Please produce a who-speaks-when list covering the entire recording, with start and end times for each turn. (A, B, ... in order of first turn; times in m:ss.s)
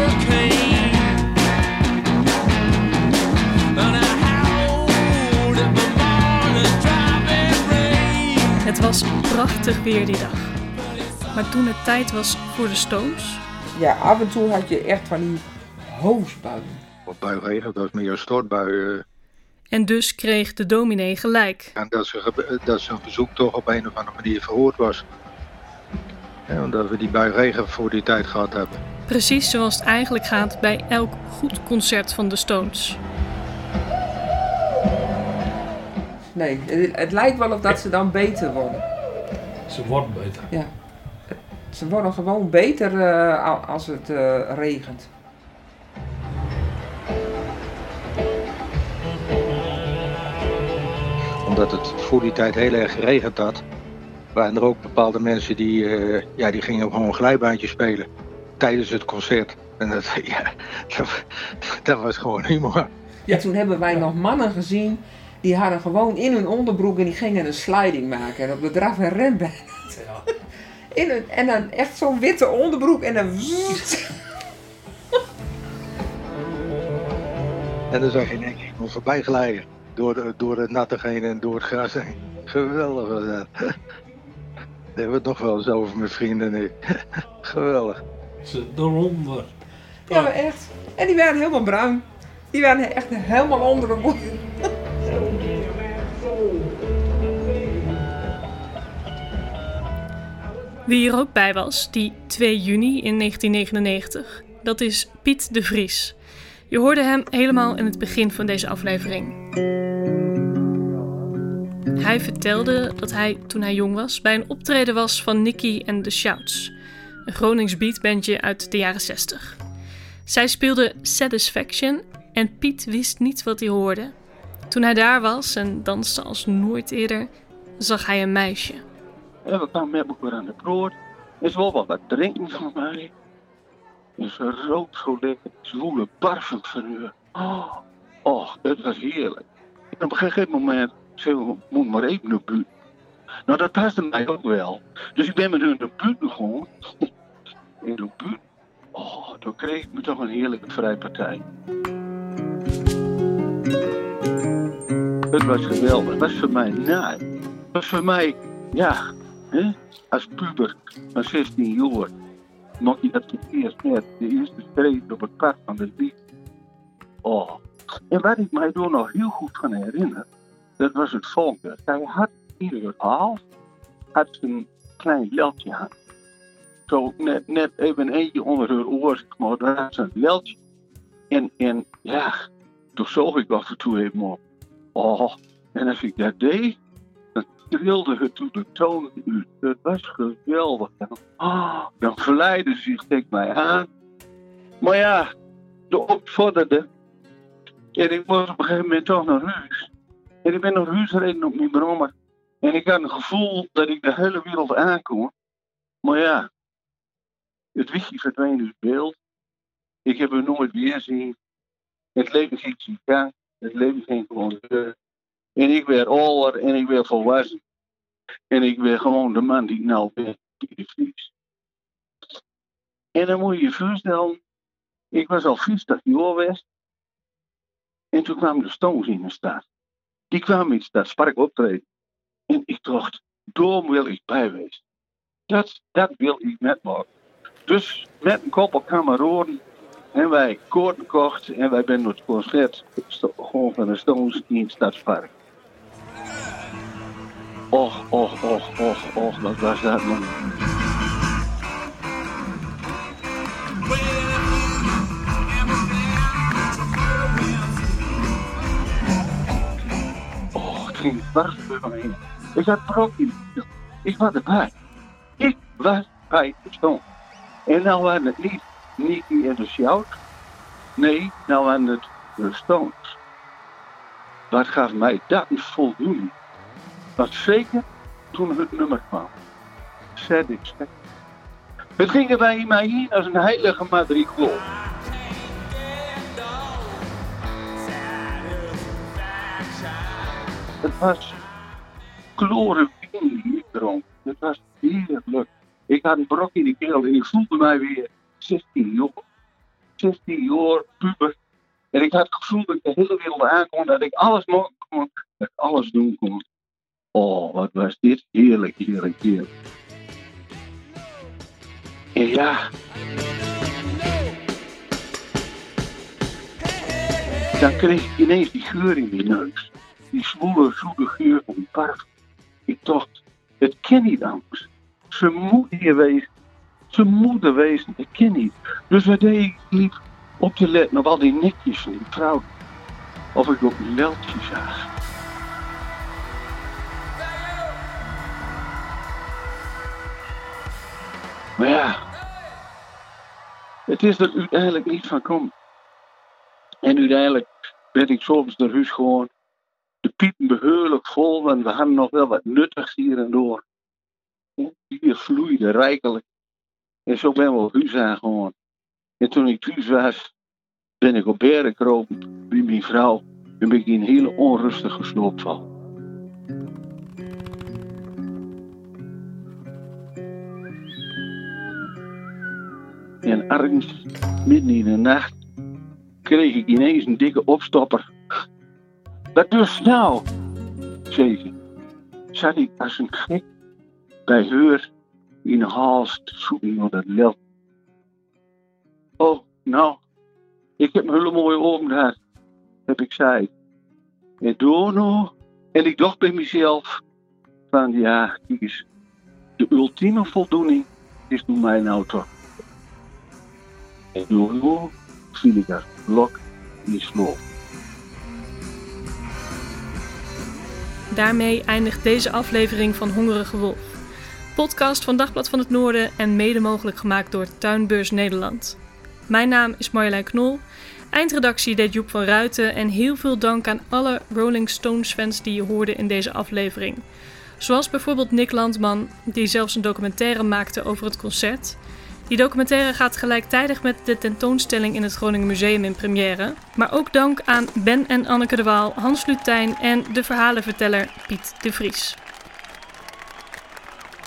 0:08.6-0:10.6 A
0:11.3-0:13.4 A
0:13.7-0:16.8 B
0:17.1-0:19.0 C
0:19.7-0:21.7 A
0:21.8-0:25.0 C
0:26.5-0:28.8 C
0:29.1-0:33.0 A
0:36.3-0:38.8 B
0:39.7-0:40.5 D
0:41.3-0:45.1 B
0:51.4-0:53.6 C
0:54.3-0:58.1 C
0:58.6-1:01.2 C
1:01.7-1:02.9 C
1:03.3-1:10.0 B
1:09.9-1:10.2 D
1:10.9-1:14.1 B
1:17.9-1:23.7 C
1:25.0-1:28.0 C
1:28.4-1:29.5 D
1:30.1-1:34.4 B
1:40.8-1:46.2 A
1:46.7-1:49.4 A
1:52.0-1:56.7 A
1:57.3-1:59.6 A
2:00.2-2:04.1 A
2:04.7-2:08.8 A
2:09.4-2:13.1 E
2:14.2-2:22.7 E
2:23.5-2:27.1 E
2:27.8-2:28.4 E
2:28.9-2:31.4 E
2:35.3-2:37.2 E
2:37.7-2:39.0 E
2:39.5-2:42.1 E
2:42.8-2:46.1 E
2:47.2-2:50.2 E
2:50.8-2:53.4 E
2:54.1-2:55.9 E
2:56.9-3:00.6 E
3:01.3-3:02.3 E
3:03.0-3:04.4 E
3:04.9-3:06.8 E
3:07.4-3:13.9 E
3:14.8-3:15.3 E
3:15.9-3:16.8 E
3:17.9-3:19.9 E
3:20.4-3:25.3 E
3:26.0-3:26.5 E
3:27.7-3:29.2 E
3:30.0-3:31.4 E
3:32.2-3:34.9 E
3:35.6-3:37.6 E
3:38.5-3:41.3 E
3:43.1-3:44.4 E
3:45.1-3:46.6 E
3:48.1-3:49.6 E
3:50.3-3:51.8 E
3:52.5-3:54.8 E
3:55.5-3:57.1 E
3:57.6-3:59.6 E
4:00.1-4:05.3 E
4:07.7-4:10.4 E
4:20.5-4:24.7 E
4:25.4-4:27.0 E
4:27.7-4:30.2 E
4:31.0-4:33.2 E
4:34.5-4:36.3 E
4:37.2-4:39.3 E
4:40.2-4:40.9 E
4:42.0-4:44.6 E
4:50.8-4:51.4 E
4:52.4-4:59.2 E
5:00.0-5:01.3 E
5:01.9-5:06.4 E
5:07.1-5:09.5 E
5:12.2-5:12.7 E
5:17.6-5:22.0 E
5:22.7-5:26.3 E
5:26.9-5:32.5 E
5:33.3-5:34.7 E
5:41.6-5:42.0 E
5:43.9-5:45.5 E
5:46.8-5:49.3 E
5:50.0-5:53.6 E
5:54.6-5:56.2 E
5:57.1-5:58.5 E
5:59.2-6:00.3 E
6:01.0-6:05.6 E
6:13.2-6:15.3 E
6:16.2-6:18.1 E
6:19.3-6:20.2 E
6:21.1-6:21.5 E
6:22.3-6:23.4 E
6:24.2-6:24.9 E
6:25.4-6:27.4 E
6:29.2-6:30.0 E
6:30.8-6:32.2 E
6:32.9-6:33.5 E
6:34.4-6:37.0 E
6:37.7-6:38.8 E
6:39.6-6:42.3 E
6:44.1-6:47.4 E
6:51.1-6:54.0 A
6:54.5-7:07.0 A
7:07.6-7:11.8 A
7:12.3-7:22.2 A